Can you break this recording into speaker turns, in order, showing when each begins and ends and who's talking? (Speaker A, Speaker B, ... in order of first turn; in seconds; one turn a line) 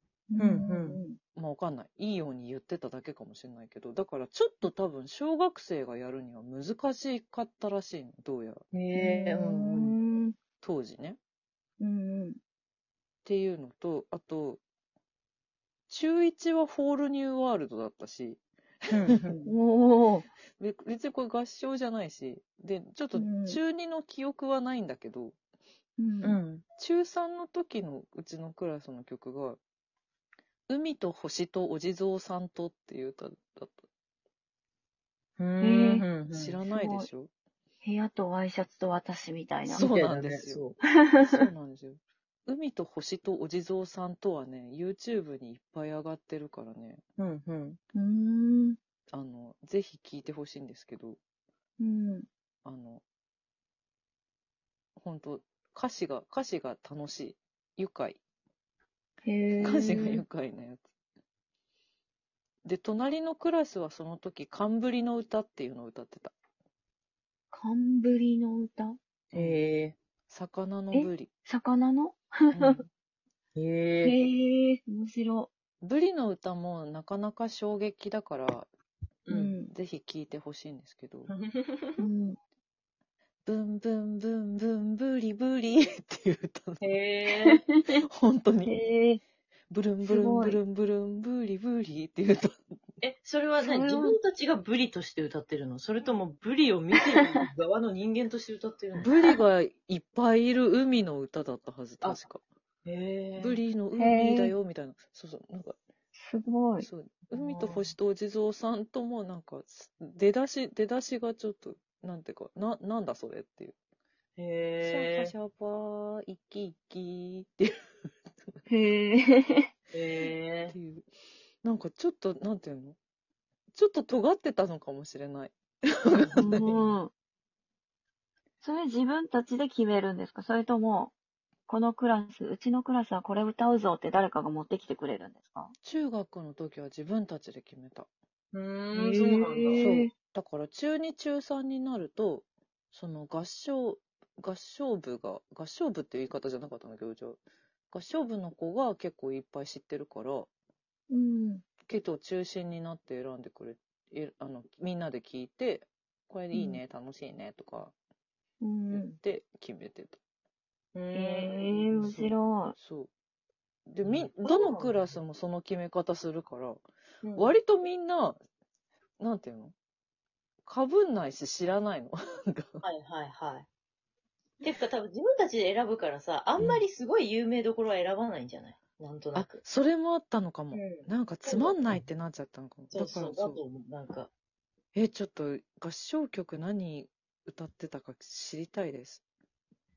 Speaker A: 0.3-1.2
Speaker B: 0.4-1.0
Speaker C: 1.4-8.6
Speaker B: 8.7-10.0
Speaker A: 9.0-10.4
Speaker C: 10.6-11.2
Speaker A: 11.8-12.4
Speaker C: 13.2-14.6
Speaker C: 15.9-18.4
Speaker B: 18.9-19.5
Speaker A: 19.4-20.3
Speaker C: 20.6-25.4
Speaker A: 23.1-23.6
Speaker A: 26.0-26.4
Speaker B: 26.2-26.6
Speaker C: 26.8-29.6
Speaker C: 30.7-33.8
Speaker B: 35.4-36.6
Speaker A: 35.6-36.1
Speaker C: 36.3-37.3
Speaker A: 36.6-37.1
Speaker A: 37.8-39.9
Speaker C: 39.7-40.6
Speaker B: 39.7-40.8
Speaker A: 40.9-41.4
Speaker C: 41.2-47.0
Speaker B: 47.2-47.8
Speaker A: 48.0-48.8
Speaker C: 49.1-51.2
Speaker A: 51.8-52.3
Speaker C: 52.6-53.0
Speaker C: 55.0-58.2
Speaker A: 59.2-60.2
Speaker C: 59.6-60.9
Speaker C: 62.6-66.3
Speaker A: 67.5-69.0
Speaker B: 69.3-70.0
Speaker C: 69.3-71.3
Speaker A: 70.9-72.8
Speaker C: 72.5-72.9
Speaker B: 73.5-74.2
Speaker A: 74.0-75.5
Speaker C: 75.8-78.7
Speaker B: 79.3-79.5
Speaker A: 79.3-79.7
Speaker C: 79.7-81.3
Speaker B: 81.3-82.1
Speaker A: 82.0-82.4
Speaker C: 83.5-87.0
Speaker B: 86.8-87.7
Speaker A: 87.4-87.9
Speaker C: 88.0-88.7
Speaker A: 88.7-89.2
Speaker C: 89.7-92.6
Speaker A: 90.0-90.6
Speaker B: 93.0-99.1
Speaker A: 93.6-94.2
Speaker C: 99.0-102.4
Speaker B: 102.8-103.6
Speaker C: 103.4-105.8
Speaker A: 104.0-104.5
Speaker A: 106.2-106.9
Speaker C: 106.8-113.8
Speaker B: 107.3-107.9
Speaker B: 114.4-115.3
Speaker C: 114.8-117.7
Speaker A: 118.7-119.7
Speaker B: 119.9-120.7
Speaker C: 120.7-121.1
Speaker C: 121.6-123.0
Speaker C: 123.8-126.7
Speaker B: 126.2-126.9
Speaker A: 126.4-127.1
Speaker A: 128.6-131.1
Speaker A: 131.7-135.7
Speaker C: 135.8-138.1
Speaker B: 138.5-139.9
Speaker A: 138.9-140.1
Speaker C: 139.8-150.5
Speaker A: 151.1-151.7
Speaker C: 151.8-157.9
Speaker A: 156.5-156.8
Speaker A: 158.6-159.2
Speaker C: 158.9-160.2
Speaker B: 160.9-162.2
Speaker A: 161.1-162.8
Speaker C: 162.0-163.1
Speaker C: 163.9-166.8
Speaker B: 164.0-165.1
Speaker B: 167.2-167.6
Speaker C: 167.4-168.4
Speaker C: 169.2-169.7
Speaker C: 170.7-172.8
Speaker B: 172.8-173.7
Speaker B: 174.6-179.6
Speaker C: 179.3-183.6
Speaker B: 180.7-182.0
Speaker B: 182.9-184.3
Speaker C: 184.9-189.2